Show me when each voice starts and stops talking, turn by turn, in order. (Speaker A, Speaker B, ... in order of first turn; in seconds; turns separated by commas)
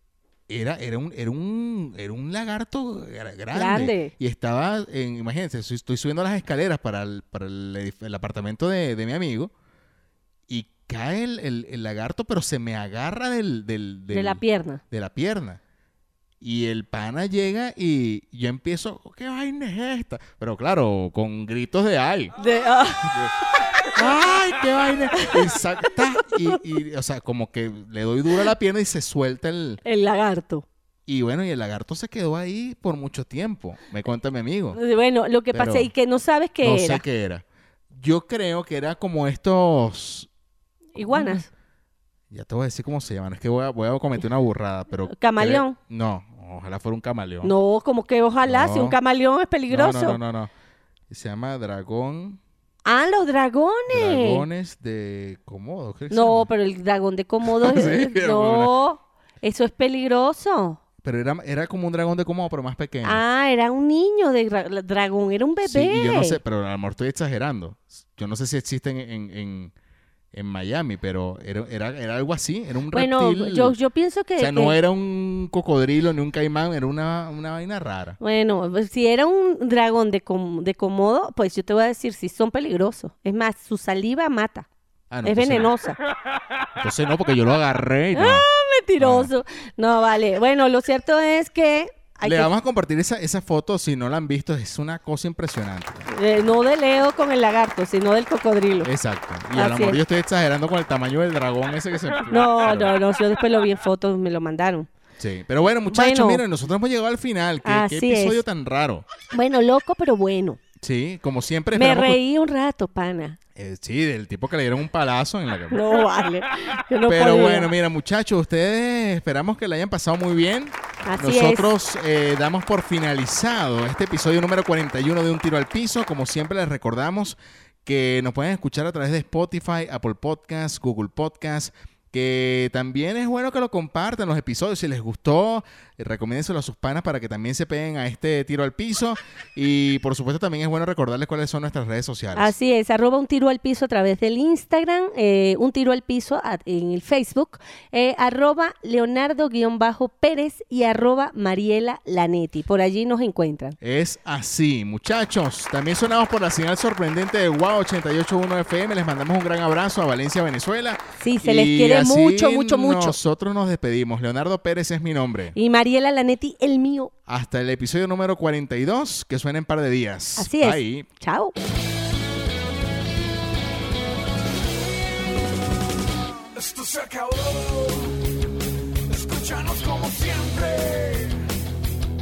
Speaker A: 0.5-9.5, Speaker B: 3.5-4.1, Speaker A: 10.5-15.6, Speaker B: 14.1-14.8, Speaker A: 16.4-22.3, Speaker B: 22.4-23.2, Speaker A: 23.0-23.3, Speaker A: 23.9-29.8, Speaker B: 29.8-30.6, Speaker A: 31.1-34.8, Speaker B: 34.7-37.0, Speaker A: 35.5-35.9, Speaker A: 36.6-40.3, Speaker A: 40.9-41.4, Speaker B: 40.9-41.5, Speaker A: 42.3-47.5, Speaker B: 45.1-45.8, Speaker B: 47.4-50.2, Speaker A: 48.4-49.0, Speaker A: 49.7-50.5, Speaker A: 51.1-52.4, Speaker B: 52.9-54.5, Speaker A: 53.9-56.5, Speaker B: 56.1-60.8, Speaker A: 57.4-58.7, Speaker A: 61.0-63.2, Speaker B: 63.0-66.4, Speaker A: 65.6-69.7, Speaker A: 70.3-73.8, Speaker B: 72.9-74.8, Speaker A: 74.4-78.2, Speaker B: 78.2-84.7, Speaker A: 85.1-85.7, Speaker B: 85.2-86.0, Speaker A: 86.8-88.5, Speaker B: 88.1-92.5, Speaker A: 89.0-89.3, Speaker A: 92.2-96.1, Speaker B: 96.1-98.9, Speaker A: 98.8-102.9, Speaker B: 99.5-100.0, Speaker B: 102.3-104.9, Speaker A: 105.2-109.0, Speaker B: 105.9-106.4, Speaker B: 107.6-108.4, Speaker B: 109.3-110.6, Speaker A: 110.8-112.2, Speaker B: 111.7-113.4, Speaker A: 113.5-115.8, Speaker B: 115.7-117.7, Speaker A: 117.0-142.5, Speaker B: 121.0-121.7, Speaker B: 142.3-153.8, Speaker A: 153.8-165.6, Speaker B: 161.2-163.2, Speaker B: 165.5-167.1, Speaker A: 167.3-171.1, Speaker B: 170.4-171.5, Speaker C: 176.5-178.2, Speaker C: 179.1-181.4